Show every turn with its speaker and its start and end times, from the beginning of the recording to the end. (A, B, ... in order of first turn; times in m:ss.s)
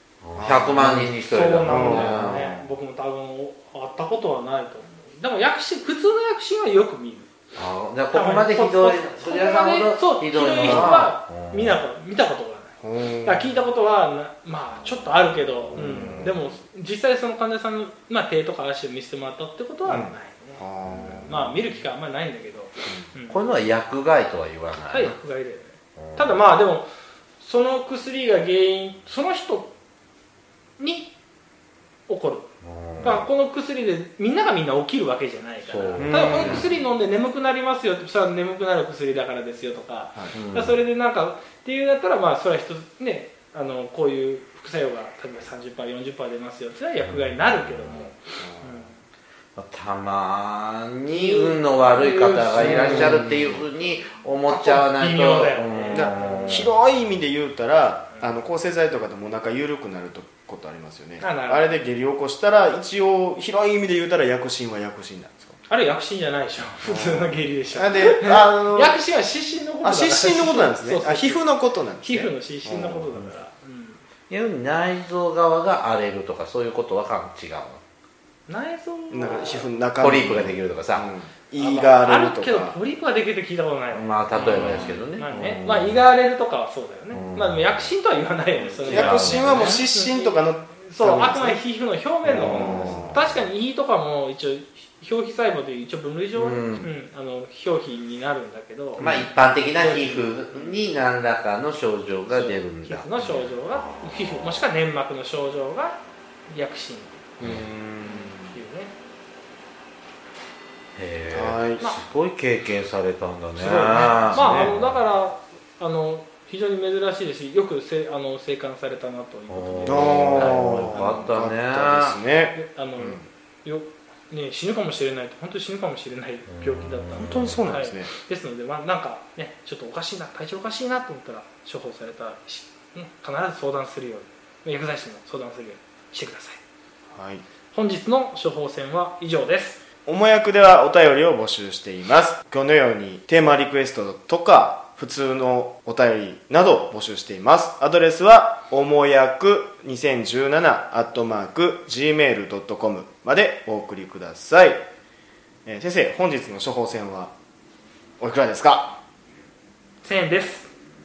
0:00.2-0:02.6 A
0:00.4-0:01.1 B
0:01.2-0:07.3 C
0:01.6-0:02.6 B
0:07.6-0:11.8 A
0:08.1-0:23.4 C
0:10.6-0:11.0 B
0:12.8-0:13.5 B
0:15.7-0:16.4 B
0:19.9-0:21.6 B
0:23.3-0:25.2 A
0:24.9-0:26.9 C
0:26.0-0:26.4 A
0:27.4-0:29.7 C
0:30.8-0:31.1 C
0:32.1-0:32.5 C
0:32.6-0:33.3 A
0:33.0-0:33.3 B
0:33.0-0:49.0 C
0:35.6-0:36.7 A
0:36.0-0:36.7 B
0:40.3-0:40.8 A
0:47.1-0:47.9 A
0:48.4-0:48.8 B
0:49.6-0:56.7 A
0:51.1-0:53.4 C
0:52.5-0:53.6 B
0:54.5-0:56.6 C
0:55.9-1:05.6 B
1:01.2-1:01.8 C
1:05.7-1:11.5 C
1:06.8-1:09.0 B
1:09.8-1:13.3 B
1:12.0-1:14.0 C
1:14.3-1:17.8 A
1:18.5-1:19.7 C
1:19.1-1:22.8 B
1:20.0-1:21.1 A
1:21.6-1:39.1 C
1:23.9-1:26.0 A
1:24.5-1:25.0 B
1:27.1-1:27.9 A
1:28.7-1:29.8 A
1:28.8-1:31.6 B
1:32.2-1:33.2 B
1:32.3-1:33.2 A
1:36.4-1:36.9 A
1:39.0-1:39.2 B
1:39.0-1:44.6 A
1:39.8-1:40.8 C
1:42.3-1:47.2 C
1:47.4-1:48.6 B
1:47.4-1:47.7 A
1:48.0-1:48.9 C
1:51.0-1:55.0 A
1:51.3-1:51.8 B
1:53.6-2:01.2 C
1:53.8-1:54.8 B
1:59.5-2:02.2 A
1:59.8-2:03.2 B
2:02.5-2:16.6 C
2:06.5-2:07.6 A
2:07.1-2:08.1 B
2:17.1-2:17.4 B
2:17.7-2:19.8 C
2:20.1-2:34.8 B
2:35.7-2:37.3 B
2:38.2-2:38.9 B
2:40.0-2:40.7 C